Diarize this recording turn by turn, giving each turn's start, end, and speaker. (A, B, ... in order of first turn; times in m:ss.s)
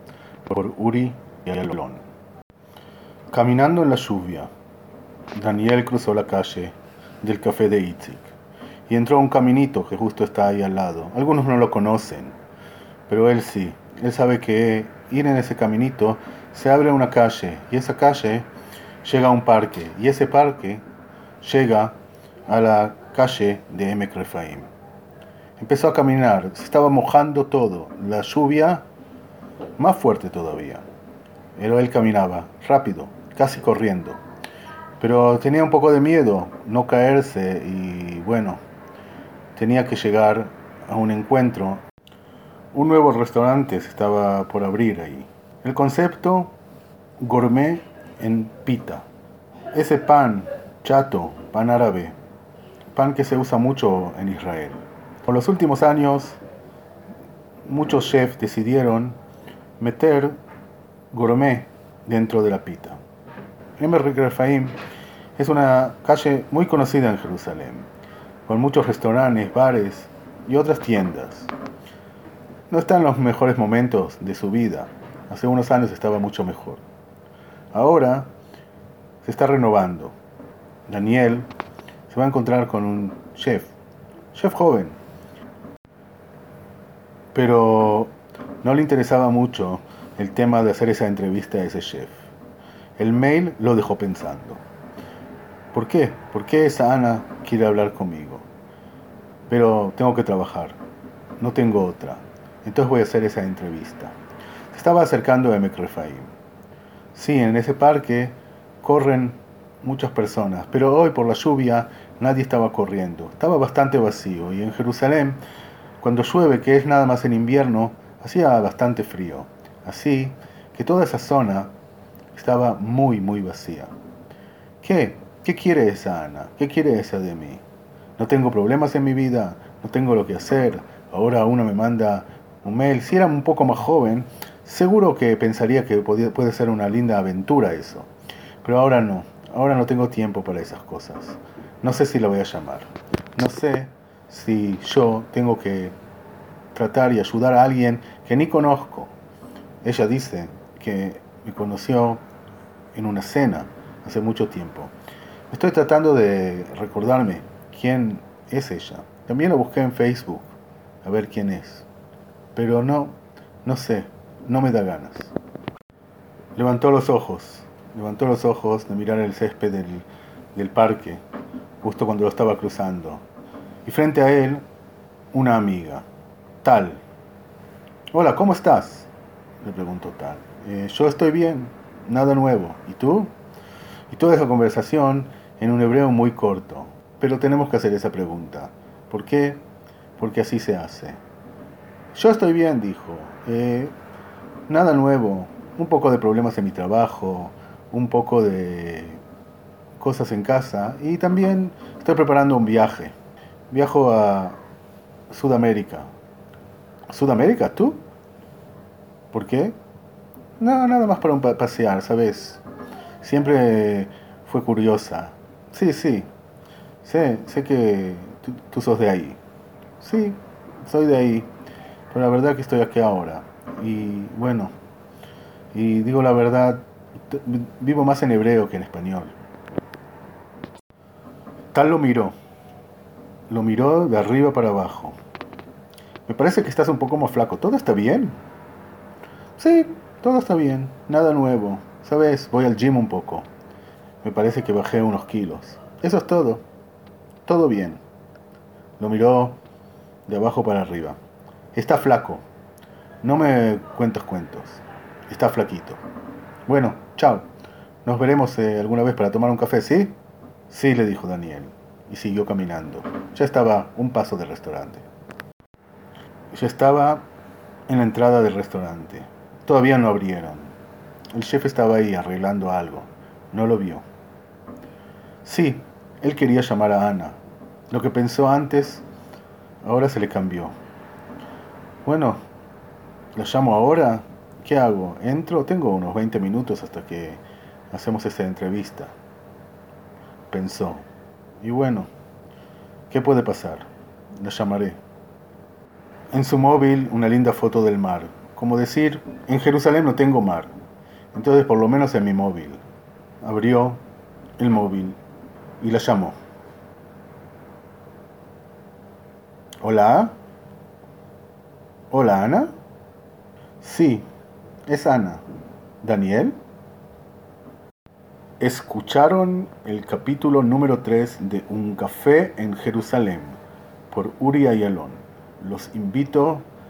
0:00.4-0:02.0 A
0:03.3-0:04.5 A
0:05.3-0:08.3 A
0:08.9-0:12.4 A
0:13.1-0:18.5 A
0:19.0-0:20.8 A
0:21.4-0:24.7 A
0:25.6-0:28.9 A
0:29.8-0:30.8 A
0:31.6-0:34.2 A
0:35.0-0:38.6 A
0:39.5-0:41.8 A
0:42.7-0:46.5 A
0:47.2-0:49.0 A
0:49.7-0:52.2 A
0:52.9-0:56.4 A
0:57.6-0:59.2 A
0:59.8-1:00.4 A
1:01.1-1:03.0 A
1:03.8-1:04.8 A
1:05.4-1:07.9 A
1:08.4-1:11.5 A
1:12.7-1:16.8 A
1:17.7-1:18.3 A
1:19.2-1:20.2 A
1:20.9-1:21.5 A
1:22.1-1:23.7 A
1:24.3-1:25.0 A
1:27.3-1:32.2 A
1:33.0-1:34.6 A
1:35.7-1:38.5 A
1:39.5-1:40.8 A
1:41.4-1:44.2 A
1:44.7-1:46.3 A
1:47.1-1:55.4 A
1:56.0-2:01.7 A
2:02.3-2:03.9 A
2:04.8-2:07.6 A
2:08.2-2:18.1 A
2:18.6-2:26.0 A
2:26.7-2:29.1 A
2:29.8-2:32.2 A
2:32.9-2:34.9 A
2:35.5-2:41.9 A
2:42.5-2:45.3 A
2:46.5-2:51.2 A
2:51.8-2:53.2 A
2:53.8-2:54.6 A
2:55.3-2:56.0 A
2:56.6-2:57.0 A
2:58.1-2:59.1 A
2:59.6-3:03.3 A
3:04.1-3:09.6 A
3:10.2-3:11.2 A
3:12.1-3:13.9 A
3:14.7-3:19.2 A
3:20.0-3:23.1 A
3:23.7-3:24.6 A
3:25.3-3:26.1 A
3:27.1-3:28.0 A
3:29.3-3:29.8 A
3:30.6-3:32.6 A
3:33.2-3:36.3 A
3:37.0-3:39.4 A
3:40.0-3:41.5 A
3:42.1-3:44.7 A
3:45.7-3:49.3 A
3:51.7-3:52.3 A
3:53.5-3:55.2 A
3:56.2-3:58.4 A
3:59.6-4:03.5 A
4:04.2-4:06.6 A
4:07.4-4:08.0 A
4:09.0-4:09.6 A
4:10.3-4:11.2 A
4:11.7-4:12.4 A
4:13.2-4:16.0 A
4:16.6-4:17.5 A
4:18.0-4:20.2 A
4:20.7-4:25.0 A
4:26.5-4:27.2 A
4:27.9-4:30.7 A
4:31.3-4:34.0 A
4:35.4-4:37.4 A
4:37.9-4:39.0 A
4:39.8-4:40.7 A
4:42.0-4:42.4 A
4:43.3-4:49.1 A
4:50.5-4:51.0 A
4:51.6-4:52.1 A
4:53.1-4:53.9 A
4:54.4-4:55.0 A
4:56.3-5:00.7 A
5:01.3-5:02.8 A
5:03.4-5:04.0 A
5:04.6-5:05.2 A
5:05.8-5:06.4 A
5:09.8-5:10.4 A
5:12.1-5:12.7 A
5:13.8-5:14.2 A
5:14.9-5:15.4 A
5:16.0-5:16.6 A
5:18.6-5:23.6 A
5:24.1-5:26.7 A